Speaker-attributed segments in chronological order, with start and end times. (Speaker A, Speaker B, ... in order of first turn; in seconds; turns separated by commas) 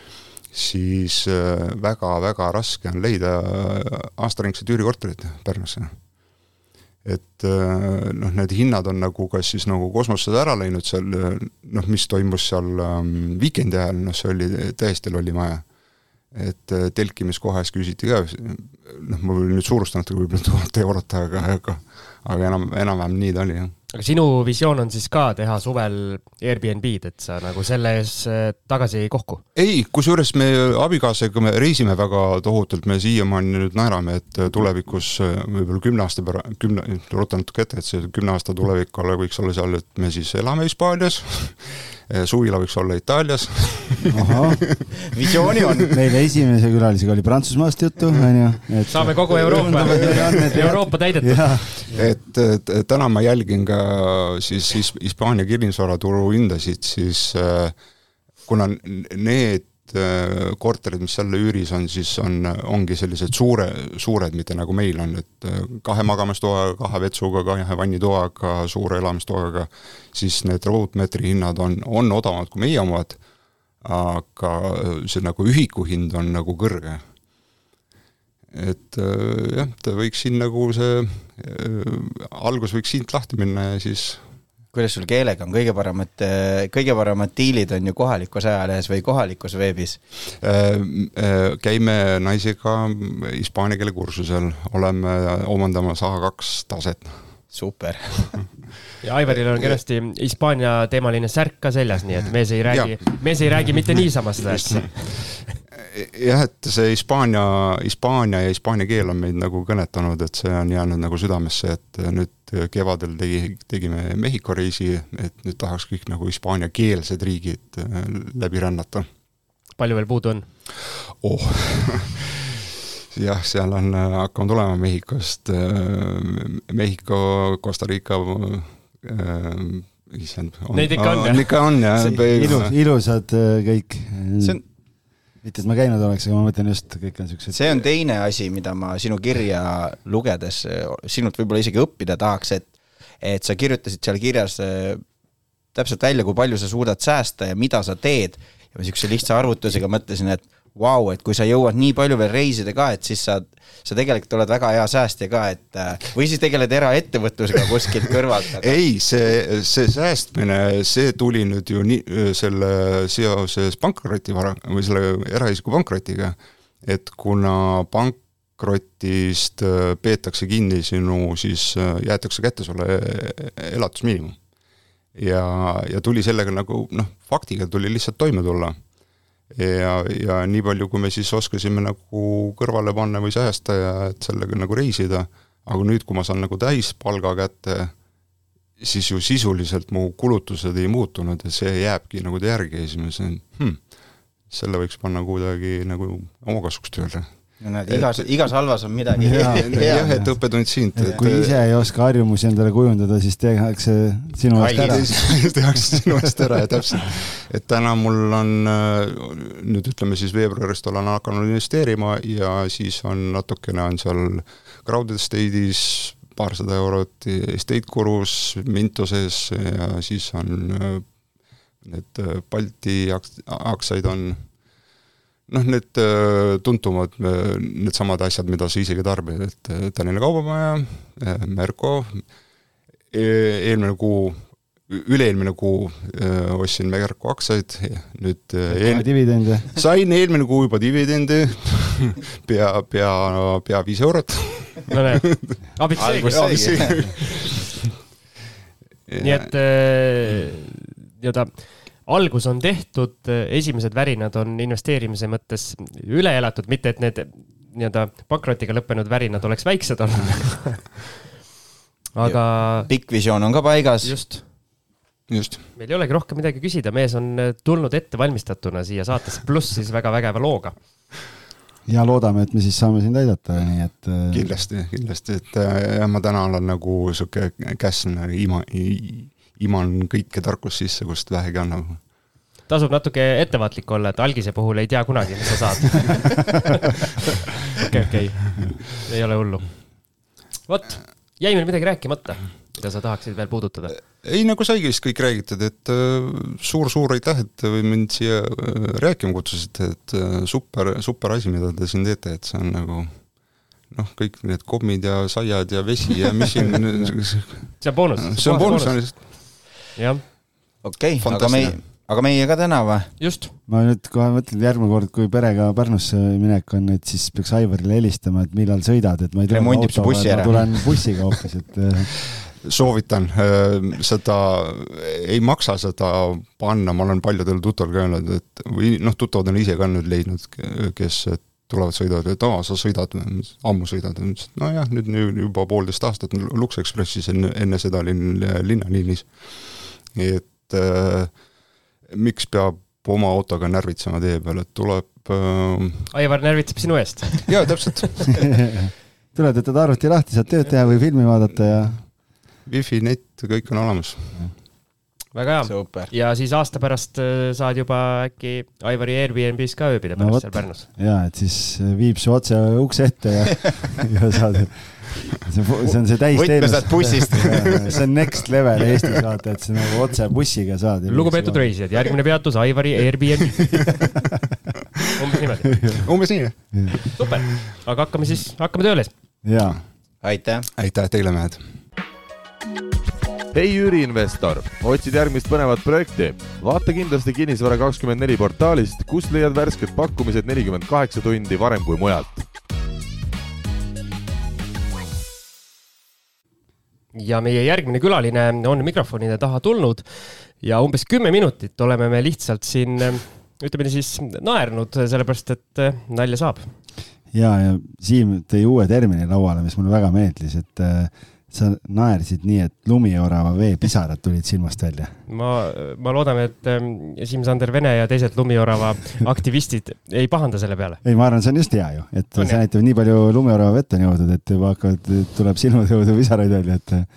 Speaker A: 0.5-6.0, Speaker A: 7.0-15.7, Speaker A: 16.3-23.7, Speaker B: 23.9-29.4, Speaker A: 29.6-44.8, Speaker C: 44.1-44.8, Speaker D: 45.0-45.9, Speaker C: 45.9-51.8, Speaker B: 48.9-51.8, Speaker A: 50.0-50.4, Speaker A: 51.9-57.8, Speaker A: 58.4-73.2, Speaker A: 73.8-77.1, Speaker A: 78.5-84.2, Speaker D: 84.7-90.0, Speaker A: 90.4-97.4, Speaker D: 97.5-98.4, Speaker B: 99.0-105.5, Speaker A: 102.7-103.9, Speaker A: 104.5-105.2, Speaker A: 105.9-119.1, Speaker B: 119.8-120.5, Speaker A: 121.2-122.3, Speaker A: 123.1-132.8, Speaker B: 130.7-131.7, Speaker C: 132.0-134.7, Speaker C: 135.4-137.8, Speaker D: 137.5-145.0, Speaker D: 145.7-158.7, Speaker A: 158.6-174.5, Speaker A: 175.1-178.9, Speaker A: 179.5-188.0, Speaker A: 188.8-198.4, Speaker D: 197.6-200.3, Speaker C: 199.2-205.5, Speaker A: 199.2-201.6, Speaker D: 201.0-201.3, Speaker D: 204.6-205.4, Speaker A: 204.6-221.2, Speaker A: 221.8-224.6, Speaker A: 225.5-232.3, Speaker A: 233.1-247.6, Speaker C: 238.7-239.7, Speaker B: 244.9-246.8, Speaker D: 246.0-247.2, Speaker A: 249.1-249.5, Speaker B: 249.2-260.9, Speaker B: 262.1-262.9, Speaker D: 262.2-264.3, Speaker B: 264.0-264.4, Speaker A: 265.3-265.6, Speaker B: 265.8-270.8, Speaker C: 271.9-274.4, Speaker A: 274.3-282.1, Speaker B: 282.7-286.4, Speaker B: 287.8-290.0, Speaker B: 290.7-293.9, Speaker A: 294.1-309.6, Speaker B: 307.8-310.2, Speaker D: 310.8-313.2, Speaker A: 311.2-311.9, Speaker B: 313.2-313.5, Speaker C: 313.7-322.1, Speaker D: 319.5-321.2, Speaker A: 322.4-341.5, Speaker A: 342.1-346.1, Speaker B: 346.1-347.6, Speaker A: 347.5-348.3, Speaker C: 348.7-352.1, Speaker A: 352.6-354.5, Speaker B: 355.3-360.9, Speaker D: 355.6-356.1, Speaker C: 360.2-371.8, Speaker D: 365.9-368.0, Speaker B: 371.1-373.9, Speaker B: 375.2-375.7, Speaker C: 375.8-376.9, Speaker A: 376.0-377.4, Speaker B: 377.1-379.1, Speaker C: 379.4-379.8, Speaker D: 380.2-380.7, Speaker A: 380.8-381.7, Speaker E: 383.5-392.4, Speaker B: 397.1-406.7, Speaker C: 407.3-415.2, Speaker B: 415.3-421.0, Speaker C: 421.0-427.1, Speaker B: 422.4-422.6